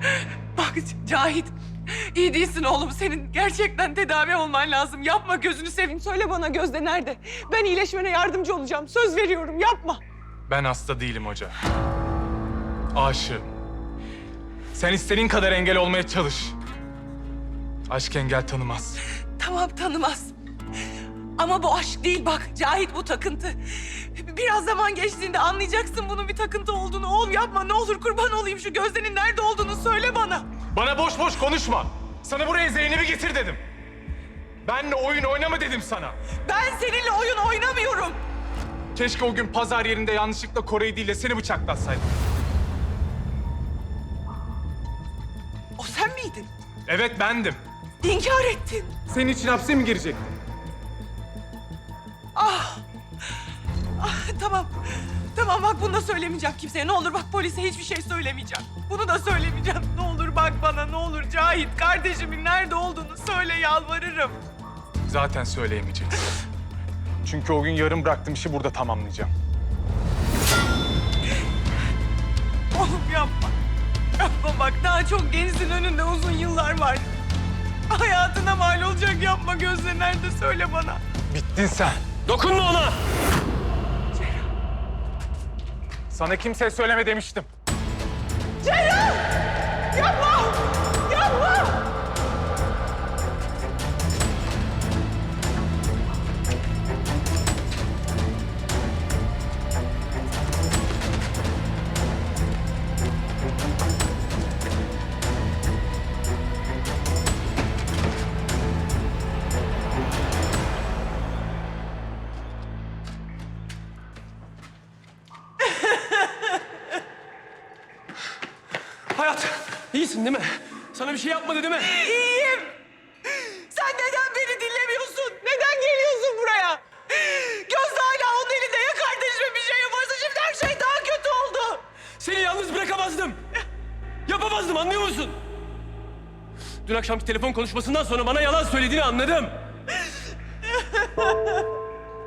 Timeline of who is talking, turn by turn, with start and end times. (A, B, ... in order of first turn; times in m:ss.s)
0:00.6-0:10.0 A
0:10.5-0:11.6 B
0:12.9-0:13.5 B
0:14.7-0:16.6 B
0:17.9-0:19.0 B
0:19.4-0:20.3 A
0:21.4-0:30.5 A
0:30.7-0:33.6 B
0:34.6-0:36.2 B
0:36.4-0:38.2 A
0:39.0-0:42.1 B
0:45.8-0:46.5 A
0:46.9-0:47.6 B
0:48.0-0:49.0 A
0:49.1-0:50.3 B
0:52.4-0:52.8 A
0:54.0-1:04.4 A
1:05.1-1:06.2 B
1:07.2-1:09.3 B
1:12.7-1:13.6 A
1:14.2-1:17.1 A
1:17.9-1:21.0 A
1:21.3-1:22.0 B
1:22.2-1:23.0 C
1:26.1-1:27.5 B
1:28.6-1:29.3 A
1:29.9-1:31.8 A
1:55.7-1:56.6 A
1:59.1-2:02.0 C
2:01.9-2:02.8 A
2:03.4-2:11.8 A
2:12.2-2:13.4 C
2:14.3-2:15.4 C
2:16.8-2:19.6 C
2:20.8-2:21.6 A